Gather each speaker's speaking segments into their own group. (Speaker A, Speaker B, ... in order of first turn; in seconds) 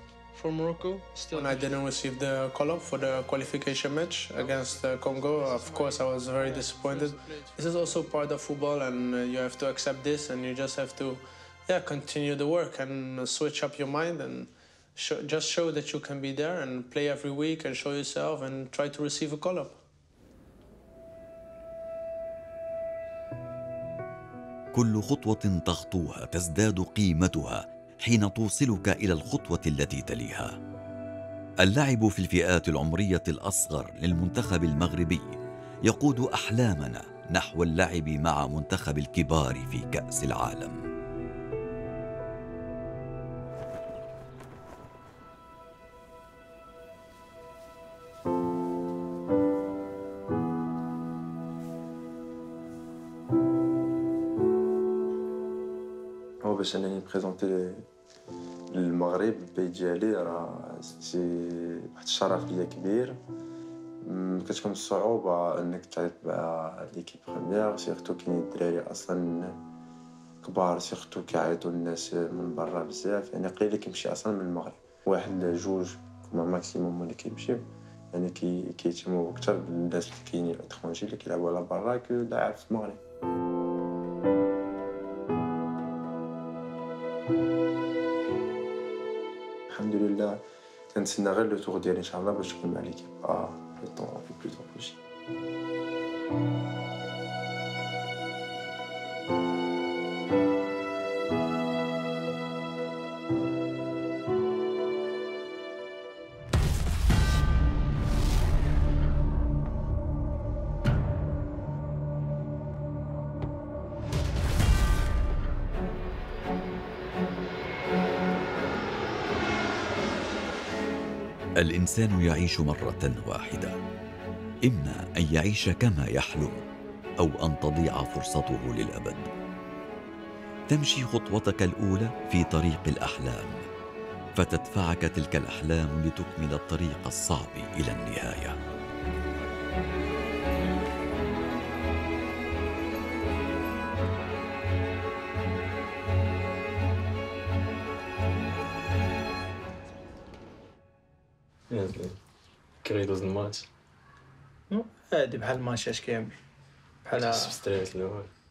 Speaker A: 0.3-19.8
Speaker B: 24.7-30.5, 31.6-35.3, 35.9-40.8, 121.6-123.7, 124.7-126.6, 127.2-129.3, 130.7-133.6, 134.3-138.6
Speaker C: 56.4-57.9, 58.7-63.1, 64.0-69.6, 70.4-83.0, 89.7-90.4, 90.9-95.0
Speaker D: 151.7-152.2, 152.8-153.7, 157.1-158.3
Speaker E: 154.7-156.4, 157.1-157.6